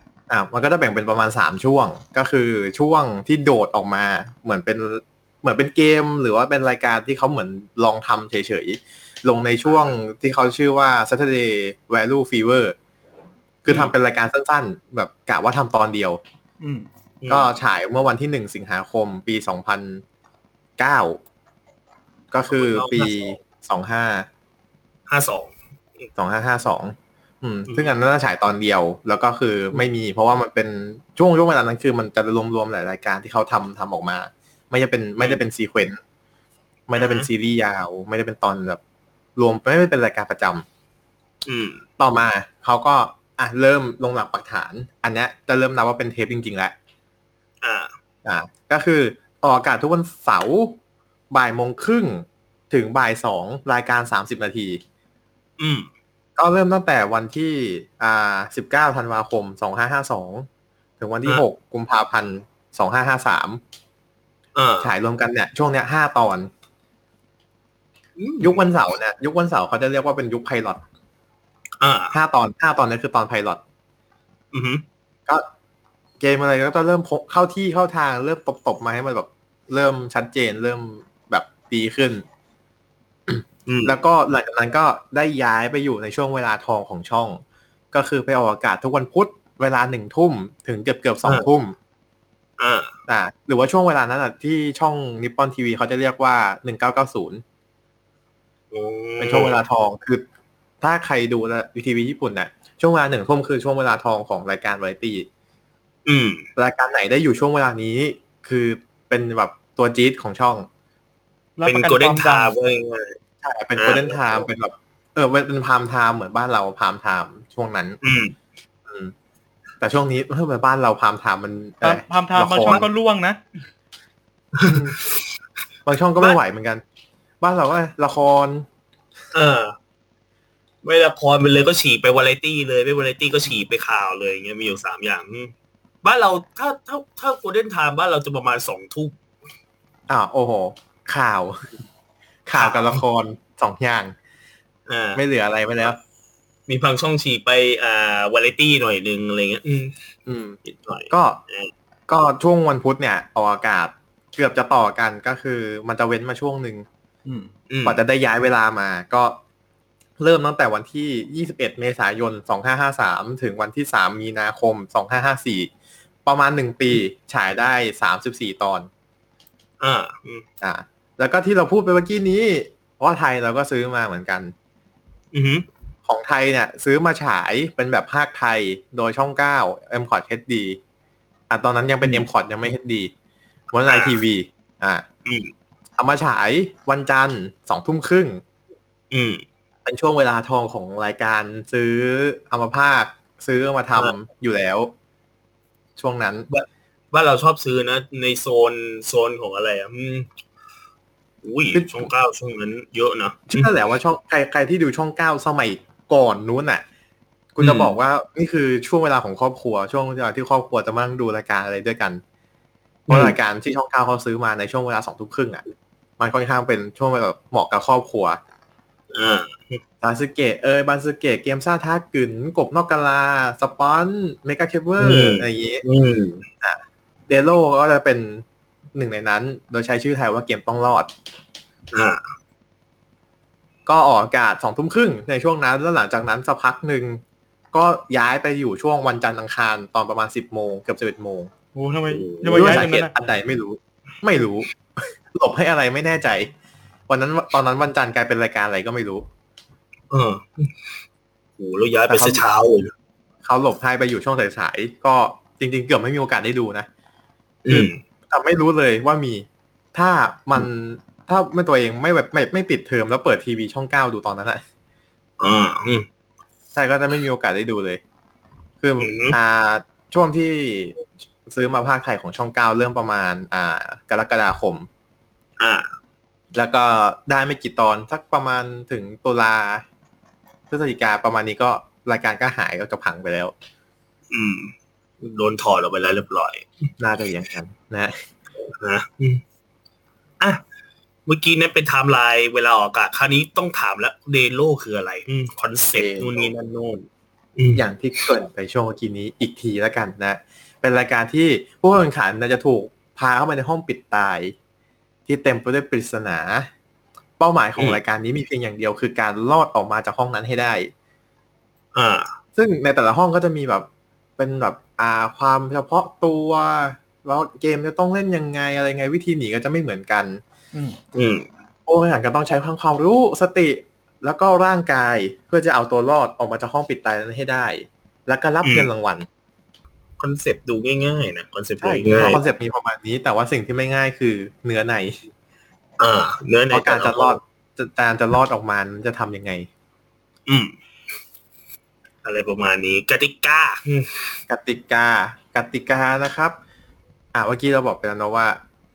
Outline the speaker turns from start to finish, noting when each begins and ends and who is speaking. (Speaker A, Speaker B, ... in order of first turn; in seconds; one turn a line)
Speaker A: 0.3-12.8
Speaker A: 13.6-16.2
Speaker B: 13.7-13.9
Speaker C: 16.6-16.9
Speaker B: 17.2-17.5
Speaker A: 17.3-20.0
Speaker A: 20.8-21.2
Speaker A: 22.3-24.3
Speaker B: 22.5-23.1
Speaker B: 25.1-26.1
Speaker A: 26.2-36.0
Speaker A: 36.9-38.8
Speaker B: 37.0-37.3
Speaker A: 39.4-40.6
Speaker B: 41.5-41.8
Speaker A: 42.0-46.8
Speaker B: 47.6-47.9
Speaker A: 48.2-50.8
Speaker A: 51.3-54.8
Speaker B: 55.6-55.9
Speaker A: 56.4-60.5
Speaker A: 61.0-63.6
Speaker B: 64.5-64.9
Speaker A: 64.8-66.5
Speaker B: 68.2-68.6
Speaker A: 68.4-70.8
Speaker B: 71.8-72.2
Speaker A: 72.1-73.6
Speaker B: 74.5-74.8
Speaker A: 76.2-82.2
Speaker A: 83.3-87.4
Speaker B: 83.7-84.0
Speaker A: 87.9-91.8
Speaker B: 92.6-93.0
Speaker A: 93.1-97.4
Speaker B: 98.7-99.6
Speaker A: 99.2-100.3
Speaker A: 100.8-105.3
Speaker B: 106.1-106.5
Speaker A: 106.6-110.7
Speaker C: 111.6-112.5
Speaker B: 111.7-113.2
Speaker A: 113.4-118.0
Speaker B: 113.8-114.5
Speaker B: 118.0-118.4
Speaker A: 118.9-119.1
Speaker A: 119.8-122.9
Speaker C: 121.8-123.4
Speaker B: 124.6-124.8
Speaker A: 124.6-125.0
Speaker A: 125.9-126.8
Speaker A: 127.4-128.7
Speaker B: 129.3-129.8
Speaker B: 130.8-139.2
Speaker A: 140.1-141.7
Speaker A: 142.5-144.2
Speaker B: 142.5-143.0
Speaker B: 144.9-145.2
Speaker A: 145.2-146.0
Speaker B: 146.7-149.9
Speaker A: 150.3-150.6
Speaker B: 150.7-151.7
Speaker A: 151.1-151.4
Speaker A: 152.1-156.9
Speaker C: 157.3-157.5
Speaker B: 157.7-158.0
Speaker A: 157.8-159.4
Speaker A: 160.2-165.7
Speaker A: 166.2-168.9
Speaker B: 169.8-170.4
Speaker A: 170.6-174.5
Speaker B: 175.3-175.7
Speaker A: 176.1-180.8
Speaker A: 181.5-183.1
Speaker A: 183.7-185.0
Speaker B: 183.9-184.2
Speaker B: 185.3-185.5
Speaker A: 186.0-188.4
Speaker B: 189.1-189.4
Speaker A: 189.8-194.9
Speaker A: 196.0-196.5
Speaker B: 196.5-200.3
Speaker B: 201.4-203.7
Speaker A: 201.7-202.1
Speaker A: 203.5-206.8
Speaker A: 207.6-212.2
Speaker B: 207.6-207.9
Speaker B: 213.1-213.4
Speaker A: 213.1-215.6
Speaker A: 216.2-218.4
Speaker B: 219.1-219.8
Speaker A: 220.0-225.8
Speaker B: 225.0-226.5
Speaker A: 226.6-231.1
Speaker B: 231.9-232.2
Speaker A: 233.9-237.2
Speaker A: 237.7-241.5
Speaker C: 241.8-243.1
Speaker B: 242.1-242.8
Speaker A: 242.5-244.7
Speaker A: 245.3-246.5
Speaker A: 247.1-249.3
Speaker B: 250.1-250.7
Speaker B: 251.6-252.9
Speaker A: 252.1-252.4
Speaker A: 253.4-256.9
Speaker B: 257.6-258.0
Speaker A: 257.7-264.6
Speaker B: 265.4-266.1
Speaker A: 266.8-268.0
Speaker A: 268.8-274.9
Speaker B: 269.0-269.4
Speaker B: 275.6-275.9
Speaker A: 276.5-279.9
Speaker A: 280.7-283.5
Speaker B: 284.3-286.9
Speaker A: 287.0-288.2
Speaker B: 288.8-289.4
Speaker B: 291.3-297.8
Speaker A: 295.9-296.5
Speaker A: 297.7-304.6
Speaker A: 305.3-306.7
Speaker A: 307.4-310.9
Speaker B: 311.9-312.3
Speaker A: 312.6-320.4
Speaker B: 321.1-321.5
Speaker A: 321.9-329.3
Speaker B: 328.6-328.9
Speaker B: 330.2-332.4
Speaker A: 331.8-335.2
Speaker B: 336.0-337.4
Speaker A: 336.7-339.7
Speaker B: 340.5-340.7
Speaker B: 342.2-344.3
Speaker A: 344.5-346.6
Speaker A: 347.3-348.6